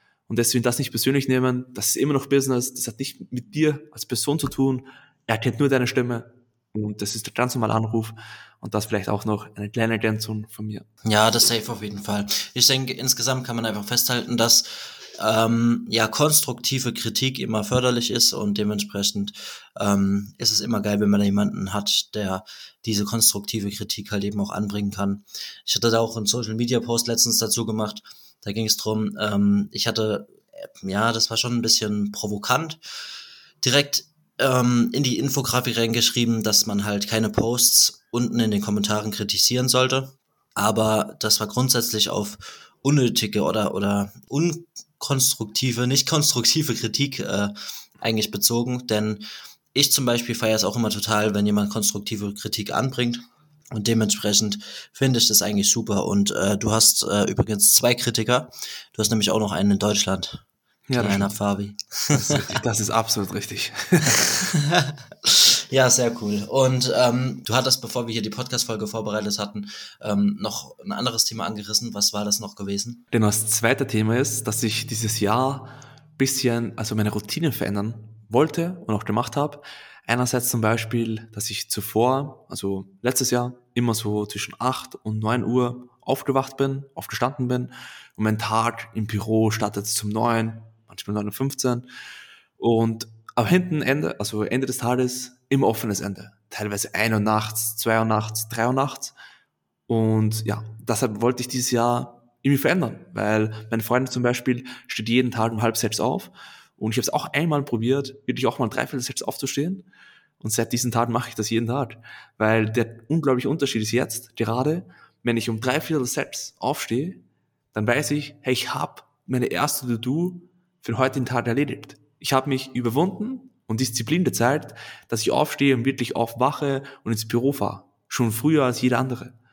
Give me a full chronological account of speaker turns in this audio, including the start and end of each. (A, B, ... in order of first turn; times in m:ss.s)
0:00.3-0:10.8 A
0:11.0-0:32.8 B
0:33.6-0:49.2 B
0:49.8-1:00.4 B
1:00.9-1:01.3 A
1:01.0-1:02.4 B
1:02.1-1:04.4 A
1:04.4-1:13.0 B
1:13.1-1:31.9 A
1:32.6-1:39.2 A
1:39.9-1:49.9 A
1:50.4-1:57.2 A
1:57.7-2:09.4 A